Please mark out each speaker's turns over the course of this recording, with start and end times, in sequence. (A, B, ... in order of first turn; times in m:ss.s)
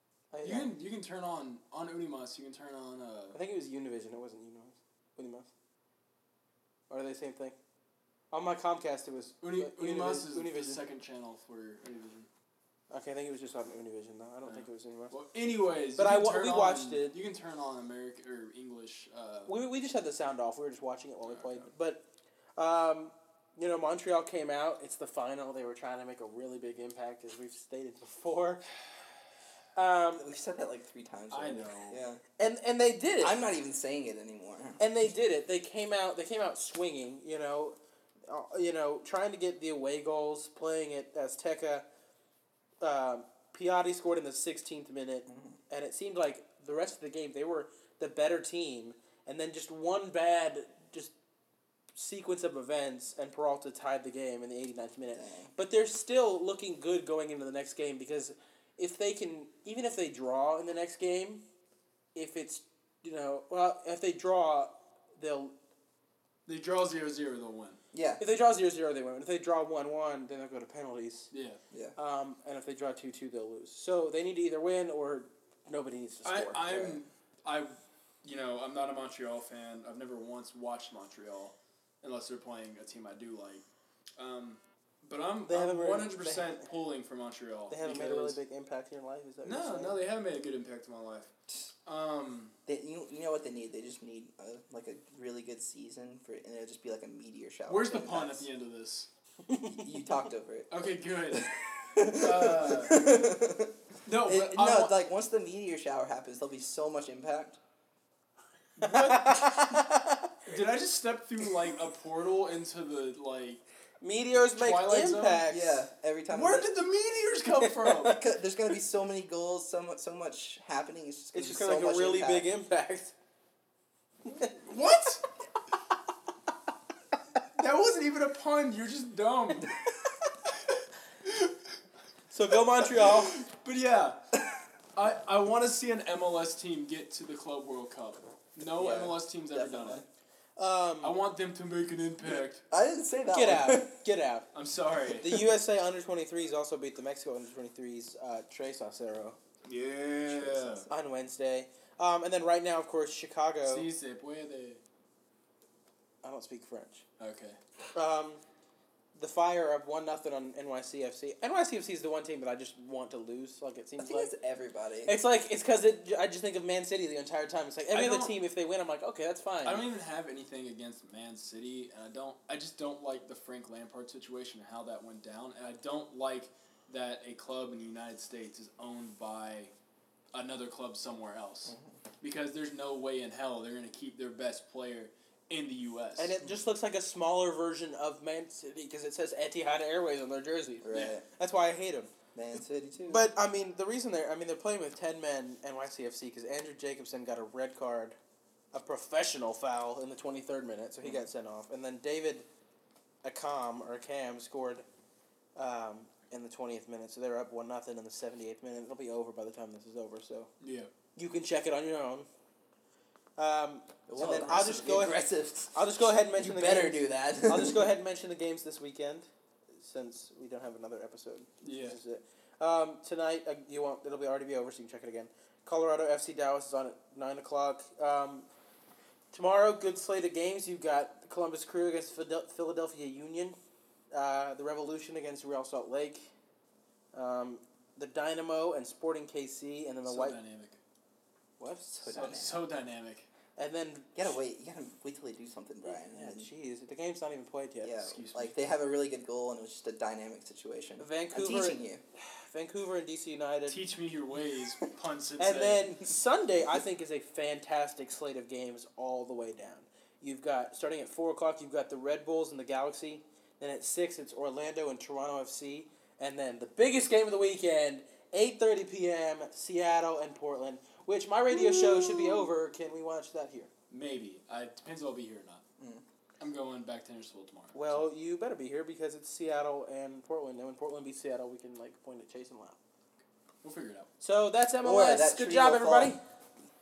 0:00.3-0:00.7 A
0:00.4-0:03.4 B
0:03.3-0:05.5 A
0:06.9-0:07.6 A
0:08.3-0:10.8 A
0:09.4-0:12.3 B
0:12.9-0:15.1 A
0:14.4-0:19.5 B
0:16.0-0:17.1 A
0:19.5-0:22.0 A
0:21.2-0:21.7 B
0:22.6-0:28.6 A
0:29.8-0:30.2 A
0:30.2-0:32.2 C
0:31.3-0:32.0 B
0:32.4-0:33.4 A
0:33.2-0:34.8 C
0:34.8-0:41.8 A
0:42.8-0:51.1 A
0:45.3-0:45.6 C
0:51.9-1:01.4 A
0:55.1-0:55.5 C
1:02.1-1:05.5 A
1:06.5-1:07.8 B
1:07.9-1:08.2 C
1:08.2-1:11.3 A
1:11.3-1:11.6 B
1:11.7-1:12.0 C
1:12.0-1:17.0 A
1:16.2-1:17.7 B
1:18.2-1:23.6 B
1:24.2-1:28.4 B
1:25.4-1:26.6 A
1:27.7-1:30.0 A
1:29.4-1:31.3 B
1:31.8-1:32.5 B
1:32.7-1:38.5 C
1:37.7-1:39.1 B
1:39.5-1:39.9 A
1:39.8-1:40.7 C
1:40.7-1:41.5 B
1:41.3-1:47.6 C
1:42.1-1:43.2 B
1:44.0-1:45.0 B
1:48.8-1:49.6 B
1:48.8-1:50.3 A
1:50.4-1:53.6 B
1:54.0-1:55.8 A
1:54.5-1:55.4 B
1:55.5-1:56.7 C
1:56.3-1:58.2 B
1:57.6-1:58.2 A
1:58.1-2:02.5 C
2:01.3-2:03.1 A
2:04.5-2:05.2 B
2:07.5-2:09.7 B
2:10.5-2:11.6 B
2:12.3-2:13.4 A
2:12.7-2:14.2 B
2:14.9-2:20.0 B
2:18.8-2:20.0 C
2:20.6-2:21.1 A
2:21.0-2:22.6 B
2:22.6-2:24.0 C
2:23.3-2:24.4 A
2:24.5-2:25.3 B
2:25.2-2:29.4 A
2:29.6-2:30.9 B
2:30.3-2:30.9 C
2:30.9-2:33.9 A
2:33.6-2:34.8 B
2:36.2-2:37.0 A
2:37.2-2:37.6 B
2:37.9-2:38.4 A
2:39.1-2:44.3 A
2:44.0-2:45.2 C
2:45.1-2:49.8 A
2:47.9-2:48.4 B
2:49.6-2:59.7 B
3:00.3-3:06.3 B
3:01.7-3:01.9 C
3:06.2-3:12.1 A
3:10.8-3:11.2 C
3:10.9-3:11.2 B
3:12.3-3:13.3 C
3:13.0-3:18.2 A
3:18.7-3:22.4 A
3:23.2-3:24.8 A
3:25.6-3:30.5 A
3:30.6-3:30.9 B
3:31.2-3:32.3 A
3:33.4-3:48.5 A
3:34.1-3:37.9 C
3:41.6-3:42.0 B
3:49.3-3:53.6 A
3:54.1-3:56.3 A
3:57.1-4:00.4 A
4:00.0-4:00.8 B
4:01.6-4:02.1 A
4:01.9-4:02.6 C
4:02.1-4:03.3 B
4:03.6-4:04.2 A
4:04.1-4:06.5 C
4:05.8-4:08.0 A
4:07.8-4:12.0 C
4:08.0-4:08.5 B
4:11.0-4:13.8 A
4:13.7-4:16.0 B
4:15.4-4:33.7 A
4:31.5-4:32.5 C
4:33.9-4:35.6 B
4:35.8-4:36.0 C
4:36.4-4:38.0 B
4:37.7-4:42.8 A
4:43.6-4:44.1 B
4:44.2-4:46.2 A
4:44.8-4:46.2 C